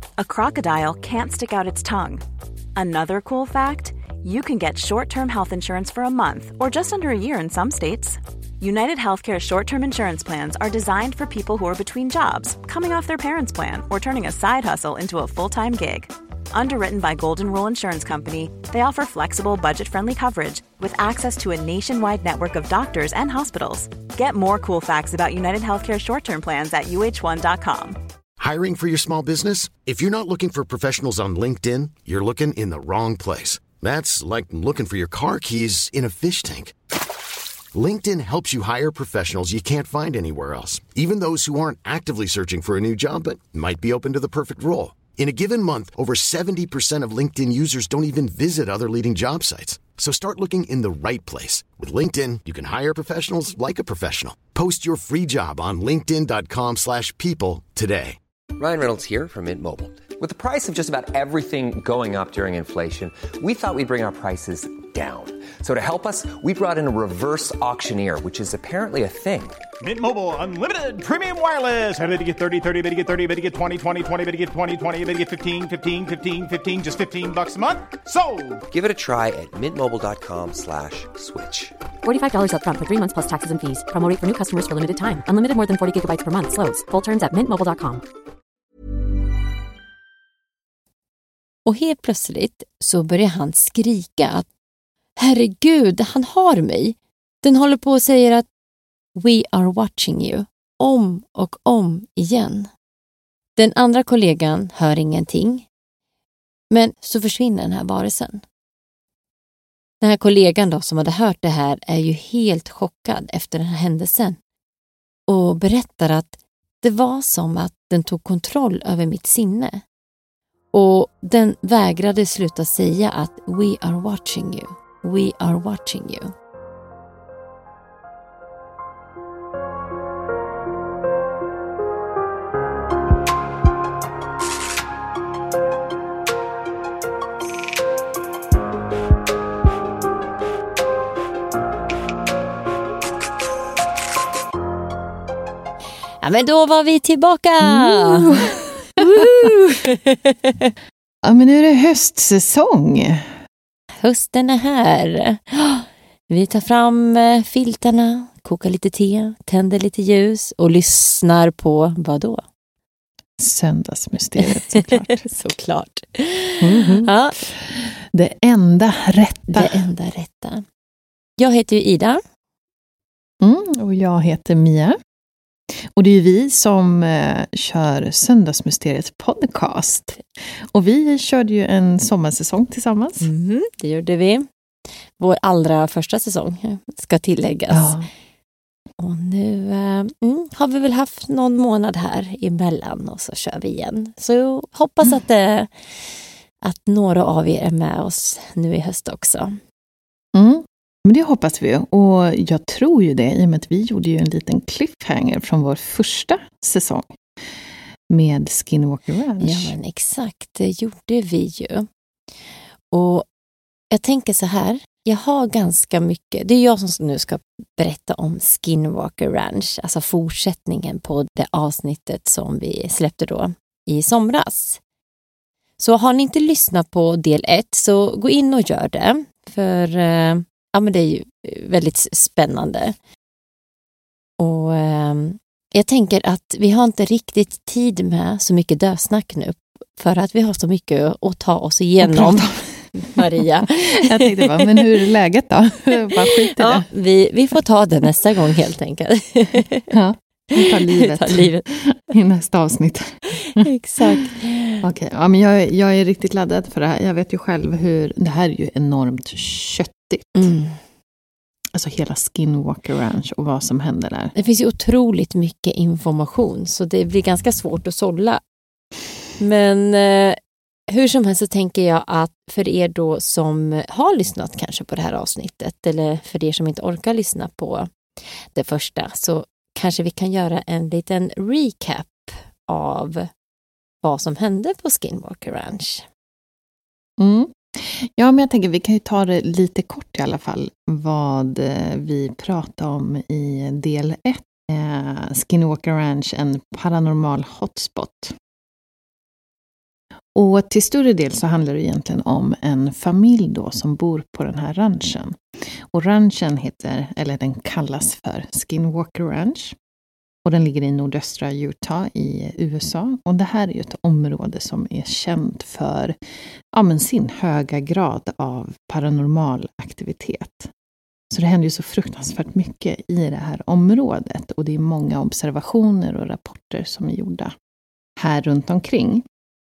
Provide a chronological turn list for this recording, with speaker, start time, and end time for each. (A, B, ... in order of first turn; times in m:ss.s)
0:00.2-0:02.2 A
0:02.8-0:28.0 A
0:28.4-0:36.7 B
0:37.7-0:58.2 B
0:58.6-1:09.6 C
1:09.8-1:18.6 D
1:18.7-1:21.8 C
1:22.0-1:28.0 E
1:31.7-1:34.5 F
1:35.2-1:38.5 F
1:39.2-1:42.7 F
1:43.6-1:45.7 F
1:46.7-1:48.4 F
1:50.0-1:54.4 F
1:55.3-1:59.8 F
2:00.7-2:06.3 F
2:26.2-2:28.4 F
2:27.6-2:29.7 G
2:29.0-2:30.7 F
2:31.2-2:33.3 G
2:34.0-2:42.4 F
2:43.4-2:45.2 G
2:44.5-2:47.4 F
2:46.6-2:49.8 G
2:49.5-2:50.6 F
2:51.4-2:52.2 F
2:53.4-2:55.0 G
2:55.9-3:00.2 G
3:00.7-3:03.3 G
3:03.2-3:04.5 F
3:05.2-3:08.0 F
3:07.7-3:08.1 G
3:09.0-3:19.6 F
3:20.3-3:27.1 G
3:28.1-3:29.7 G
3:29.4-3:31.9 F
3:32.9-3:33.3 F
3:33.9-3:44.8 F
3:45.8-3:53.0 F
3:54.4-4:04.7 F
4:02.0-4:06.9 G
4:06.2-4:09.9 F
4:09.9-4:14.3 G
4:10.6-4:11.7 F
4:13.4-4:14.8 F
4:14.8-4:20.5 G
4:20.4-4:20.8 F
4:21.7-4:24.3 G
4:24.4-4:28.4 F
4:29.4-4:37.9 F
4:38.5-4:43.3 F
4:44.0-4:46.1 F
4:47.2-4:58.4 G
5:00.4-5:05.4 G
5:05.9-5:09.8 G
5:10.4-5:16.2 G
5:16.7-5:20.7 G
5:21.3-5:27.5 G
5:28.2-5:29.2 G